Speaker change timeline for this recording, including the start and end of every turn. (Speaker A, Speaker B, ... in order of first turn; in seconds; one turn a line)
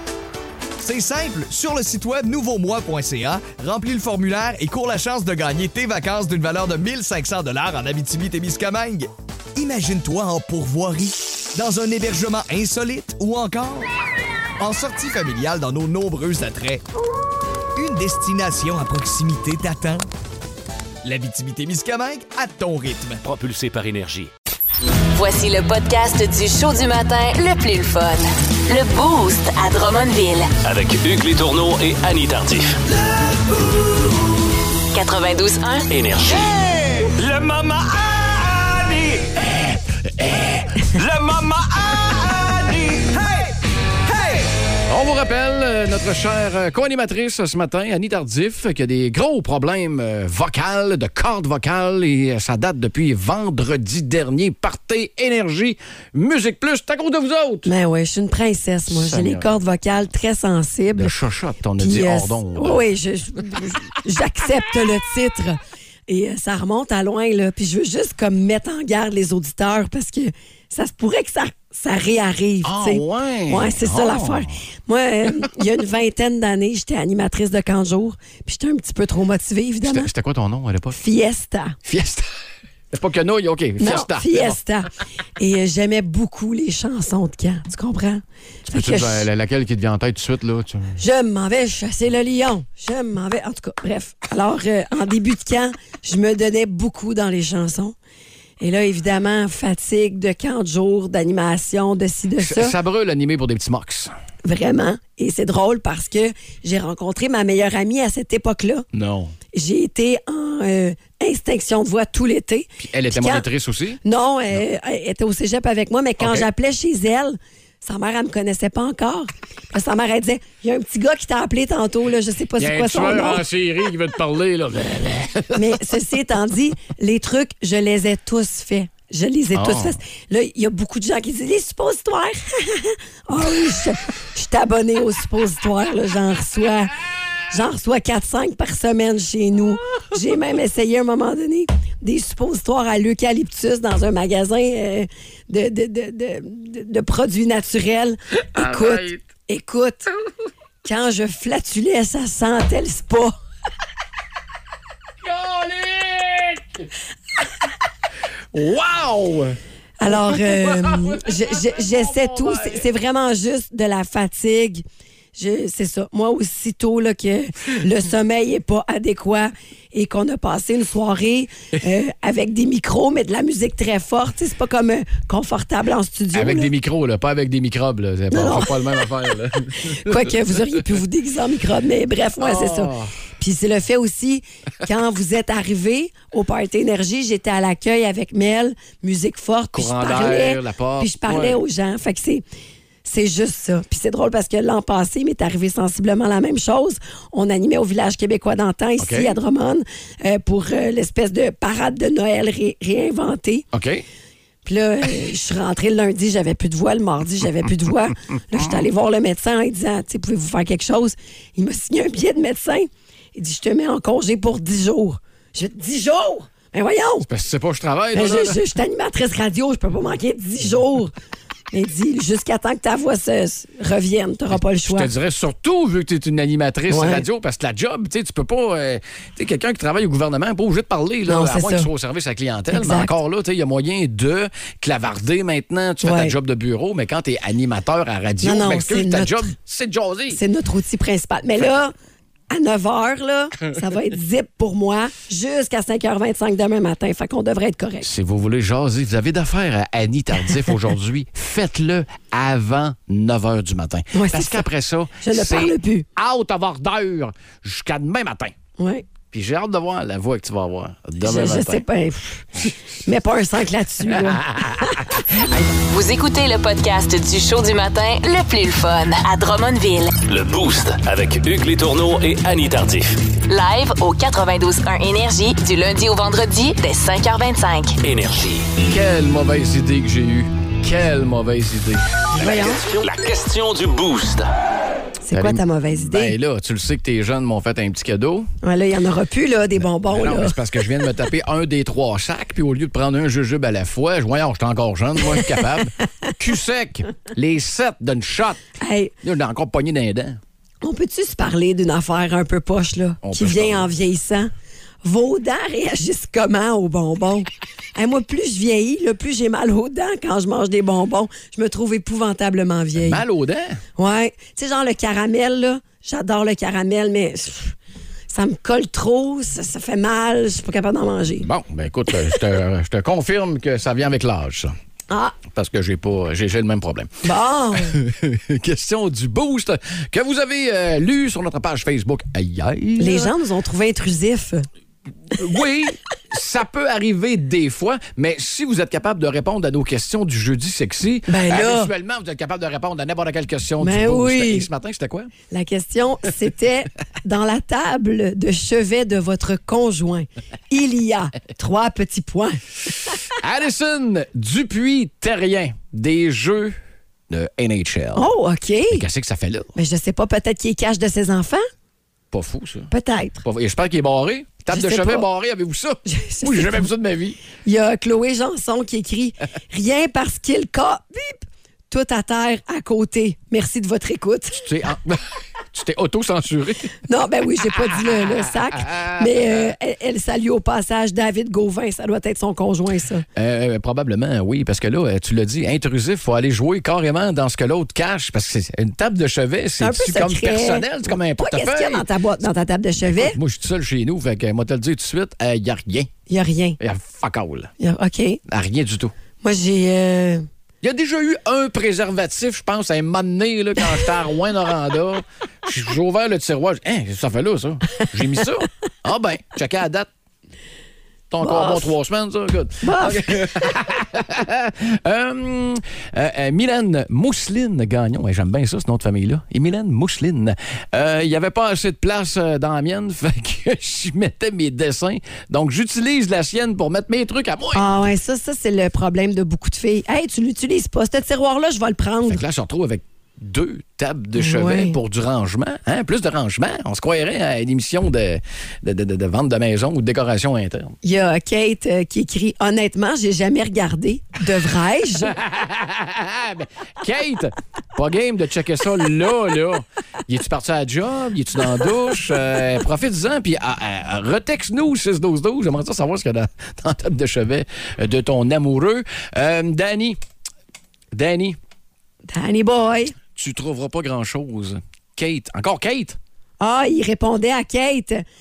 Speaker A: 0.8-13.9
Speaker A: 14.6-16.8
Speaker A: 17.8-20.1
Speaker A: 21.0-23.2
Speaker B: 23.2-24.3
Speaker C: 25.1-30.5
Speaker B: 30.6-32.8
Speaker A: 33.2-34.1
Speaker C: 34.9-35.9
Speaker B: 35.9-36.6
Speaker A: 36.5-39.3
Speaker D: 40.2-40.5
Speaker A: 40.8-43.5
Speaker A: 44.0-44.5
Speaker D: 44.9-57.7
Speaker E: 57.7-61.1
Speaker D: 58.9-59.5
Speaker D: 60.9-62.8
Speaker E: 61.8-80.1
Speaker D: 72.6-74.5
Speaker D: 79.8-81.0
Speaker E: 80.9-81.8
Speaker D: 81.9-82.3
Speaker D: 82.9-84.6
Speaker E: 83.8-89.3
Speaker D: 88.7-91.0
Speaker E: 91.0-98.0
Speaker E: 98.6-102.8
Speaker D: 102.4-104.1
Speaker E: 104.5-108.8
Speaker D: 108.9-109.3
Speaker E: 109.5-113.5
Speaker D: 112.8-114.6
Speaker E: 114.0-123.4
Speaker D: 116.2-116.5
Speaker D: 122.6-125.8
Speaker E: 125.5-136.9
Speaker D: 129.5-130.0
Speaker E: 137.5-150.1
Speaker D: 148.6-149.2
Speaker E: 150.8-153.3
Speaker D: 155.2-156.9
Speaker D: 158.5-162.9
Speaker E: 160.0-176.7
Speaker D: 176.3-180.4
Speaker E: 178.3-179.0
Speaker E: 179.9-192.4
Speaker D: 182.4-183.1
Speaker D: 189.7-191.6
Speaker E: 193.1-203.7
Speaker D: 199.0-199.4
Speaker D: 203.7-204.1
Speaker E: 204.7-217.3
Speaker D: 217.2-218.6
Speaker E: 218.1-221.1
Speaker E: 221.7-225.1
Speaker D: 224.5-240.4
Speaker E: 226.9-227.2
Speaker E: 231.3-231.9
Speaker E: 232.7-233.2
Speaker E: 236.0-236.3
Speaker E: 238.4-239.5
Speaker E: 240.3-241.9
Speaker E: 242.5-248.1
Speaker D: 248.0-258.5
Speaker E: 254.1-254.7
Speaker E: 255.2-256.1
Speaker E: 258.8-259.1
Speaker D: 259.3-261.8
Speaker E: 261.2-262.5
Speaker E: 263.1-265.0
Speaker D: 264.1-265.6
Speaker C: 265.9-270.2
Speaker B: 270.2-273.2
Speaker C: 273.5-278.0
Speaker B: 278.0-278.7
Speaker D: 278.9-282.1
Speaker E: 282.4-282.8
Speaker B: 282.4-284.5
Speaker E: 285.2-286.4
Speaker D: 285.3-288.5
Speaker E: 288.6-290.6
Speaker D: 290.1-298.6
Speaker E: 298.8-299.1
Speaker D: 299.2-300.4
Speaker E: 300.8-304.5
Speaker D: 303.2-303.9
Speaker E: 305.0-313.2
Speaker D: 313.0-313.8
Speaker E: 314.0-317.7
Speaker E: 318.3-321.5
Speaker D: 321.4-324.7
Speaker E: 325.1-325.4
Speaker D: 325.5-333.4
Speaker E: 327.2-328.0
Speaker E: 333.0-334.7
Speaker D: 335.3-345.3
Speaker E: 341.3-341.9
Speaker E: 343.8-344.7
Speaker E: 345.5-352.6
Speaker D: 353.3-356.8
Speaker D: 357.3-358.3
Speaker E: 358.1-359.0
Speaker D: 358.9-359.7
Speaker E: 359.8-361.6
Speaker D: 362.3-362.9
Speaker E: 362.9-363.4
Speaker D: 363.4-367.4
Speaker E: 364.7-365.3
Speaker E: 366.1-366.9
Speaker E: 367.6-374.7
Speaker D: 374.5-376.9
Speaker E: 377.1-383.2
Speaker D: 377.9-379.7
Speaker D: 383.4-392.1
Speaker E: 389.8-393.4
Speaker D: 393.0-396.1
Speaker E: 396.3-396.8
Speaker D: 396.8-397.7
Speaker E: 397.8-398.4
Speaker D: 398.5-399.1
Speaker E: 399.4-400.5
Speaker D: 400.8-410.1
Speaker D: 411.3-427.9
Speaker E: 411.4-411.9
Speaker E: 412.8-413.5
Speaker E: 427.7-432.4
Speaker D: 432.2-441.0
Speaker E: 434.4-435.0
Speaker E: 441.0-445.4
Speaker D: 445.2-460.2
Speaker D: 461.1-461.6
Speaker E: 462.3-463.1
Speaker D: 463.4-466.2
Speaker E: 466.6-468.2